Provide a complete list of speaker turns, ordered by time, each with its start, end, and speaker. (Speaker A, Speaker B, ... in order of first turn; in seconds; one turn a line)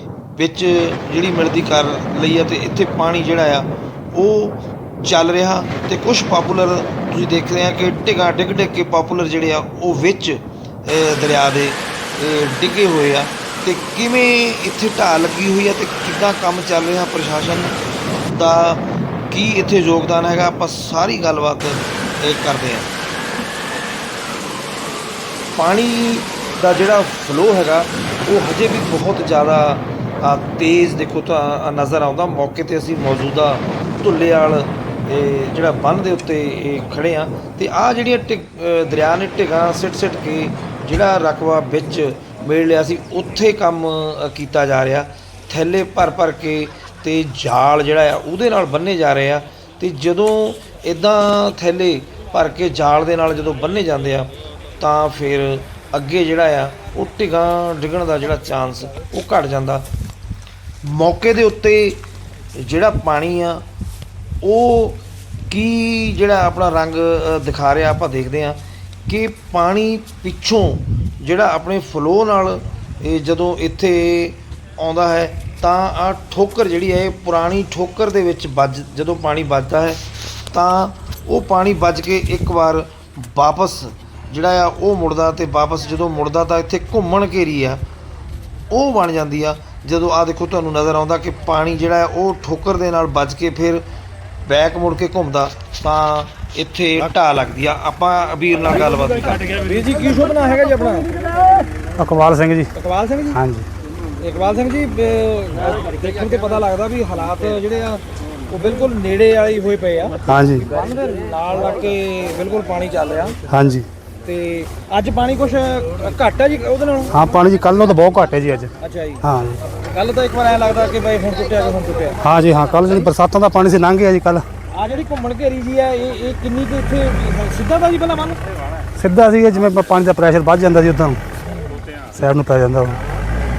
Speaker A: 0.3-17.7
Speaker A: 18.3-22.9
Speaker A: 25.6-59.9
Speaker A: 60.8-62.0
Speaker A: 62.5-63.6
Speaker A: 64.4-87.8
Speaker A: 88.7-93.8
Speaker A: 94.5-99.5
Speaker B: 99.6-101.1
Speaker C: 102.0-102.7
Speaker B: 102.7-103.4
Speaker C: 103.3-103.7
Speaker B: 104.2-113.4
Speaker C: 110.2-110.7
Speaker C: 113.5-113.9
Speaker B: 114.2-117.1
Speaker C: 117.1-118.7
Speaker B: 118.8-119.2
Speaker C: 119.2-119.6
Speaker B: 119.9-122.2
Speaker C: 122.2-124.4
Speaker B: 124.7-128.4
Speaker C: 129.0-131.2
Speaker B: 131.5-131.8
Speaker C: 132.1-133.0